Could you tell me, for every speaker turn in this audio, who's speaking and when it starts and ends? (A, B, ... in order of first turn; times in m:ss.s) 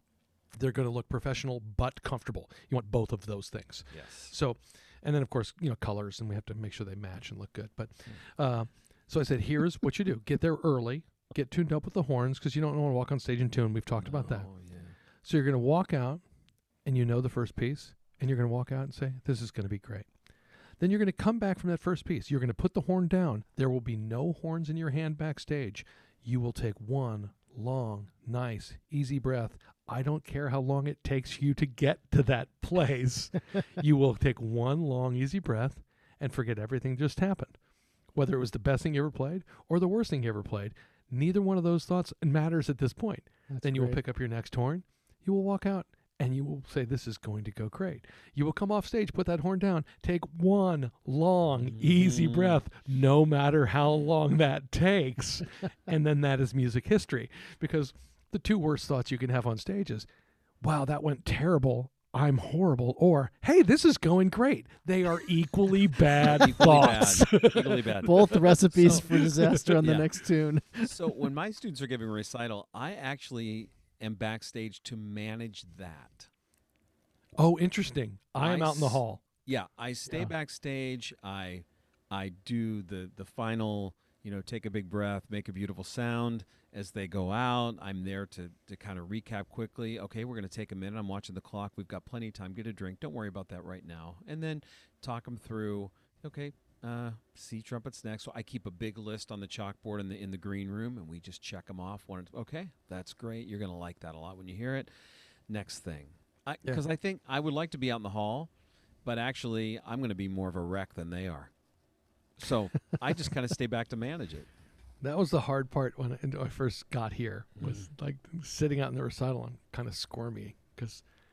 0:00.5-0:14.5 A
0:03.9-0:04.4 B
0:14.0-0:15.0 B
0:15.2-0:16.2 A
0:16.8-0:20.1 A
0:20.8-0:37.6 A
0:38.1-1:00.1 A
0:43.5-0:44.0 C
0:51.7-0:52.6 B
1:00.6-1:09.8 A
1:06.2-1:09.0 B
1:08.0-1:11.0 C
1:09.8-1:10.1 B
1:10.8-1:16.3 B
1:17.4-1:19.2 A
1:18.4-1:44.9 B
1:45.5-1:48.5 B
1:49.0-1:51.5 B
1:52.4-1:54.5 B
1:55.0-2:01.0 A
1:57.6-1:57.9 B